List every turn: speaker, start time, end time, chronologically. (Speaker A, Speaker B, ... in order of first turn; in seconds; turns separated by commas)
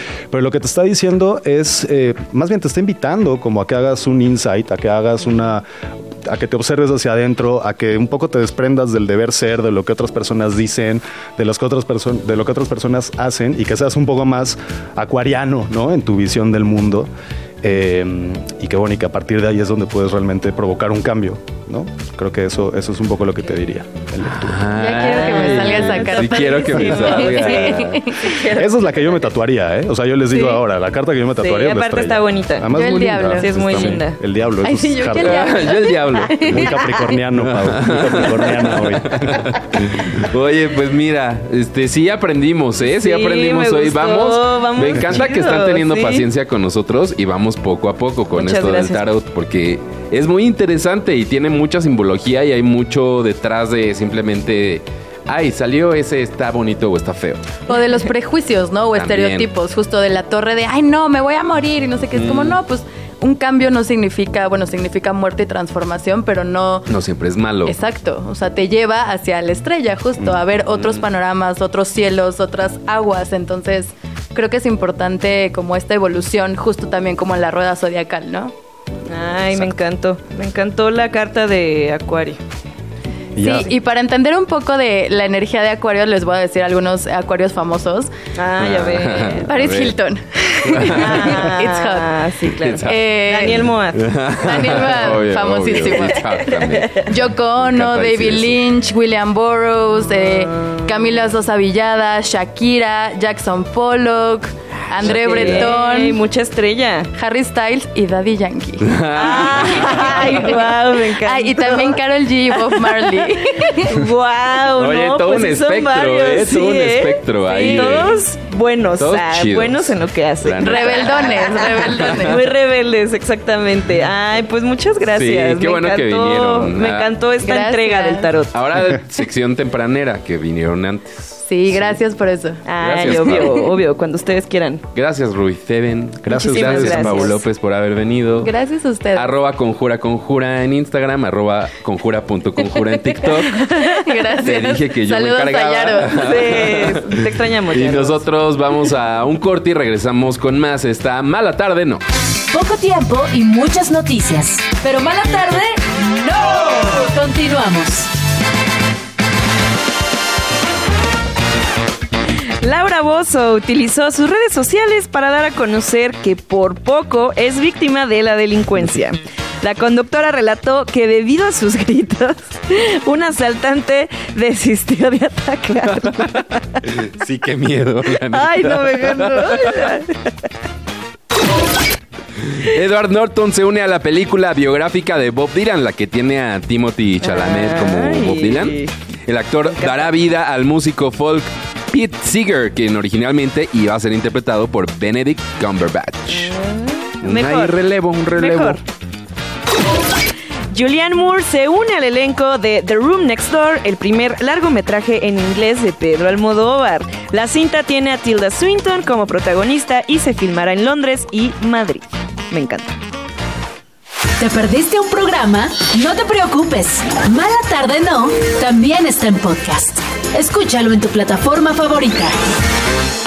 Speaker A: 0.3-5.7, Speaker A: 6.2-17.1, Speaker A: 17.6-24.8, Speaker B: 24.2-28.1, Speaker C: 24.7-28.5, Speaker D: 25.1-28.7, Speaker A: 28.3-35.7, Speaker D: 31.4-32.7, Speaker C: 32.7-33.5, Speaker D: 33.4-34.2, Speaker B: 33.6-34.0, Speaker C: 34.6-37.2, Speaker B: 35.1-36.8, Speaker A: 36.4-39.6, Speaker B: 37.4-57.6, Speaker D: 43.0-46.3, Speaker D: 48.3-49.0, Speaker C: 57.7-66.9, Speaker B: 59.0-59.5, Speaker B: 62.1-62.6, Speaker B: 66.9-67.8, Speaker C: 67.7-78.5, Speaker B: 70.2-71.1, Speaker D: 79.1-82.4, Speaker A: 83.3-83.7, Speaker C: 83.4-88.1, Speaker D: 88.3-89.5, Speaker B: 88.6-90.0, Speaker C: 89.5-93.7, Speaker B: 90.6-91.5, Speaker D: 90.8-94.1, Speaker B: 92.6-98.6, Speaker C: 94.4-106.2, Speaker B: 105.0-105.7, Speaker D: 105.0-107.1, Speaker C: 107.2-114.0, Speaker B: 108.8-110.4, Speaker D: 109.1-128.6, Speaker B: 114.8-118.2, Speaker B: 119.0-122.4, Speaker C: 120.6-122.4, Speaker B: 125.1-127.1, Speaker C: 127.4-128.3, Speaker B: 128.5-132.0, Speaker C: 131.4-132.6, Speaker D: 132.7-134.8, Speaker B: 132.8-133.7, Speaker C: 133.2-133.4, Speaker B: 134.9-138.6, Speaker A: 136.2-137.2, Speaker D: 136.3-137.4, Speaker C: 138.4-139.3, Speaker B: 139.1-152.0, Speaker C: 143.3-146.3, Speaker D: 146.1-148.2, Speaker E: 152.5-158.1, Speaker D: 162.6-176.5, Speaker B: 176.2-180.0, Speaker D: 178.3-180.3, Speaker B: 182.4-196.5, Speaker D: 187.2-188.9, Speaker D: 189.7-190.1, Speaker D: 196.3-197.8, Speaker B: 197.2-198.8, Speaker D: 198.4-198.8, Speaker D: 200.7-213.0, Speaker E: 214.4-222.3